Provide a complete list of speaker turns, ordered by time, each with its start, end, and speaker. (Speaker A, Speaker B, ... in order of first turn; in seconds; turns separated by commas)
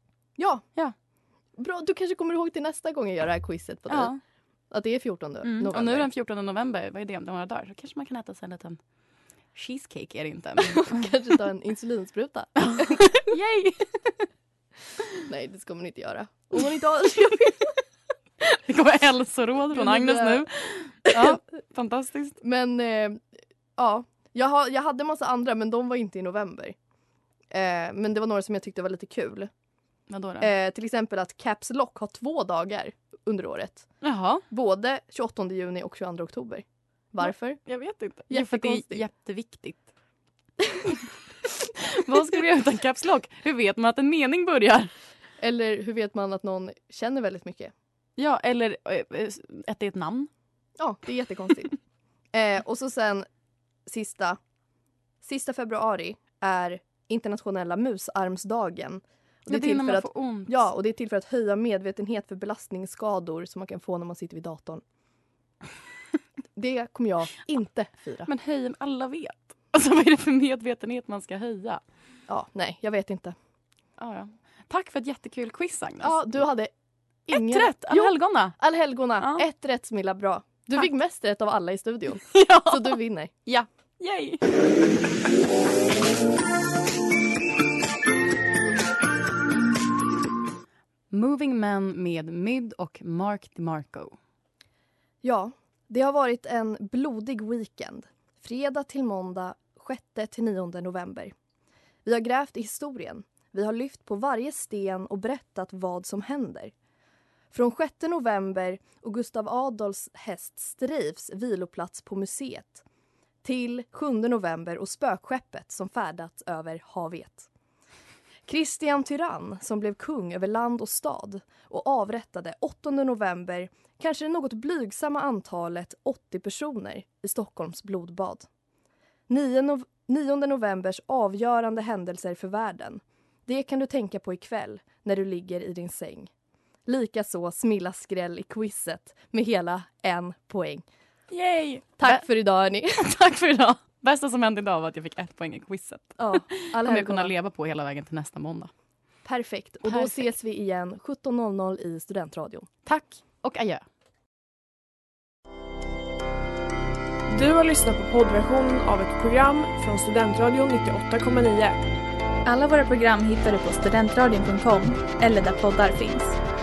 Speaker A: 0.4-0.7, Speaker A: 1.6-4.1, Speaker B: 3.9-4.2, Speaker A: 4.7-6.1, Speaker B: 5.4-8.8, Speaker B: 9.5-11.1, Speaker A: 10.6-13.2, Speaker B: 12.6-13.9, Speaker A: 15.2-17.7, Speaker B: 18.6-22.4, Speaker A: 19.7-20.5, Speaker A: 21.1-21.4, Speaker A: 22.4-23.2, Speaker A: 23.8-26.8, Speaker A: 27.5-29.5, Speaker B: 30.1-30.5, Speaker A: 30.4-33.9, Speaker B: 34.0-34.4, Speaker A: 34.5-37.6, Speaker B: 37.2-39.8, Speaker A: 38.3-39.0, Speaker B: 42.0-44.9, Speaker A: 45.4-47.7, Speaker B: 48.2-50.3, Speaker A: 50.8-51.8, Speaker A: 52.3-53.3, Speaker A: 53.9-54.4, Speaker A: 55.2-64.8, Speaker B: 59.5-60.6, Speaker A: 66.6-68.3, Speaker B: 68.3-71.8, Speaker A: 72.3-73.3, Speaker B: 74.0-76.4, Speaker A: 76.0-76.7, Speaker A: 77.3-83.3, Speaker B: 77.3-78.6, Speaker B: 82.3-84.5, Speaker B: 91.1-94.2, Speaker A: 95.2-101.3, Speaker A: 102.0-106.7, Speaker A: 107.5-112.8, Speaker A: 113.4-117.5, Speaker A: 118.5-128.5, Speaker A: 129.3-136.3, Speaker A: 136.9-140.8, Speaker B: 141.3-142.3, Speaker A: 142.0-143.0, Speaker B: 143.0-148.7, Speaker A: 146.2-147.3, Speaker A: 149.2-152.7, Speaker B: 149.9-150.3, Speaker B: 152.9-153.8, Speaker C: 157.3-161.8, Speaker D: 162.4-166.4